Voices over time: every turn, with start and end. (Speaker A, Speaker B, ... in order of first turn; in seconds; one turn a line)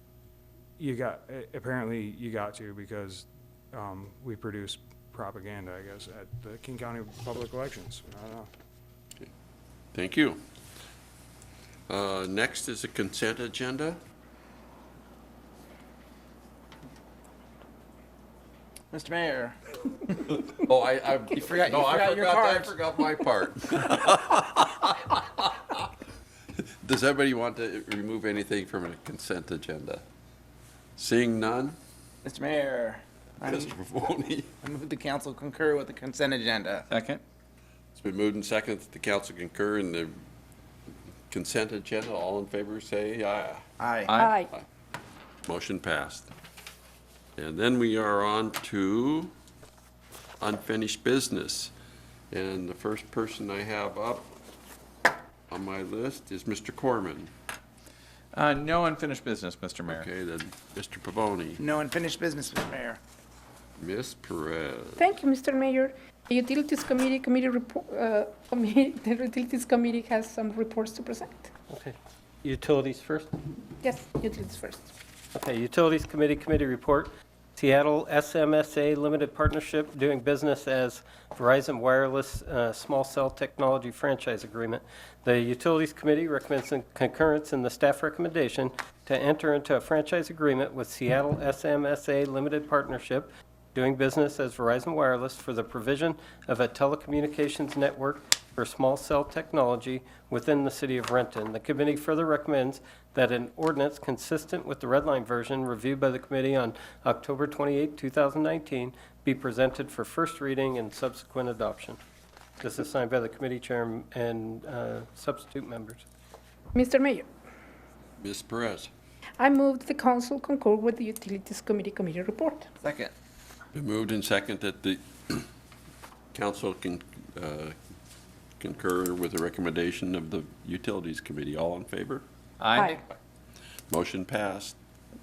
Speaker A: 0.8-8.5
Speaker B: 9.9-10.4
Speaker B: 11.9-14.0
Speaker C: 18.9-20.2
Speaker B: 20.3-25.8
Speaker C: 21.5-22.7
Speaker B: 26.8-30.0
Speaker B: 31.0-31.8
Speaker C: 32.2-33.7
Speaker B: 33.4-34.5
Speaker C: 34.6-36.9
Speaker D: 36.9-37.2
Speaker B: 37.9-40.1
Speaker B: 41.3-43.6
Speaker C: 43.8-44.1
Speaker E: 44.1-44.5
Speaker B: 45.5-46.3
Speaker B: 47.4-49.3
Speaker B: 50.4-51.7
Speaker B: 52.3-54.3
Speaker B: 55.5-57.3
Speaker D: 58.3-60.0
Speaker B: 59.9-61.6
Speaker C: 61.6-63.0
Speaker B: 63.8-65.0
Speaker E: 65.0-71.5
Speaker F: 71.7-73.3
Speaker E: 73.8-74.9
Speaker F: 75.3-112.0
Speaker F: 112.6-116.0
Speaker E: 116.7-117.2
Speaker B: 118.2-118.9
Speaker E: 119.4-122.7
Speaker C: 122.8-123.1
Speaker B: 123.7-125.5
Speaker B: 126.3-127.7
Speaker B: 128.6-132.2
Speaker D: 132.6-133.0
Speaker B: 133.9-134.8